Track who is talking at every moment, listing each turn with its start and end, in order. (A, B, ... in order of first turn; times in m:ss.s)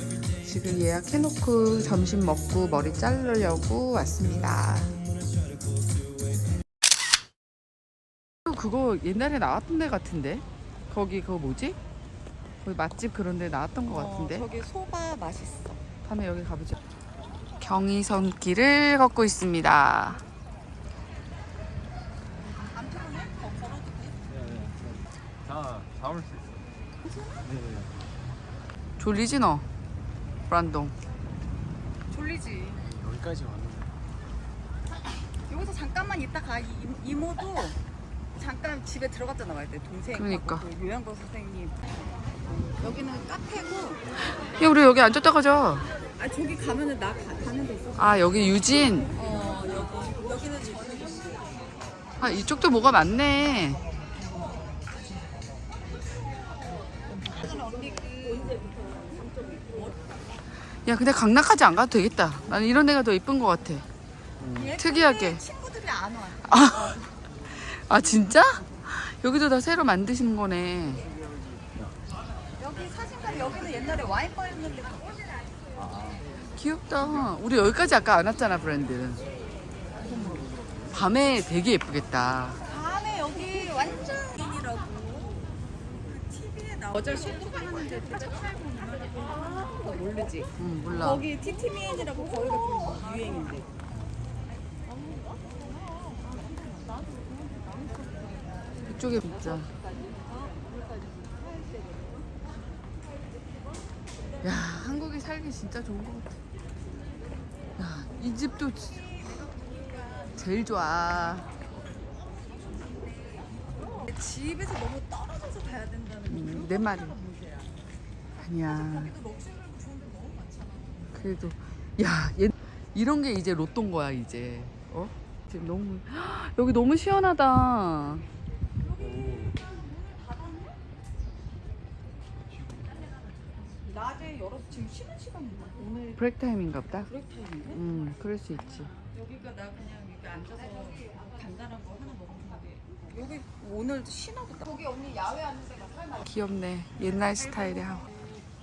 0:00.4-0:05.0 A
0:08.4-0:11.8 A
0:12.6-0:14.4 A
0:13.9-0:15.8 B
0:16.0-0:16.8 A
0:17.6-0:20.2 A
0:22.7-0:24.2 B
0:24.4-0:26.4 C
0:27.2-0:27.5 B
0:27.4-0:27.9 C
0:29.0-0:29.7 A
0:30.5-0:30.9 A
0:32.1-0:32.8 B
0:32.9-0:33.9 C
0:35.5-0:37.8 B
0:38.4-0:41.9 B
0:40.1-0:40.6 A
0:42.5-0:44.0 B
0:44.5-0:45.9 A
0:46.2-0:48.1 B
0:48.0-0:49.1 A
0:49.1-0:51.4 B
0:52.2-0:53.8 A
0:57.3-1:00.0 B
1:00.8-1:03.8 A
1:04.5-1:07.1 B
1:04.8-1:05.4 A
1:06.5-1:07.0 A
1:07.5-1:11.0 A
1:12.6-1:15.3 B
1:16.5-1:19.2 A
1:20.1-1:20.4 B
1:20.9-1:22.6 A
1:22.6-1:25.5 B
1:26.0-1:33.7 B
1:30.6-1:31.2 A
1:36.2-1:37.2 B
1:38.8-1:39.7 A
1:39.6-1:42.2 B
1:44.4-1:46.4 A
1:47.8-1:49.2 A
1:49.3-1:49.8 B
1:50.4-1:51.5 A
1:52.7-1:57.7 B
1:56.3-1:57.2 A
1:58.4-1:59.2 A
1:58.7-2:01.0 B
2:01.1-2:08.2 A
2:08.9-2:10.8 B
2:13.8-2:16.2 B
2:16.2-2:17.1 A
2:17.0-2:17.8 B
2:17.7-2:18.9 A
2:19.0-2:25.8 B
2:26.2-2:28.0 A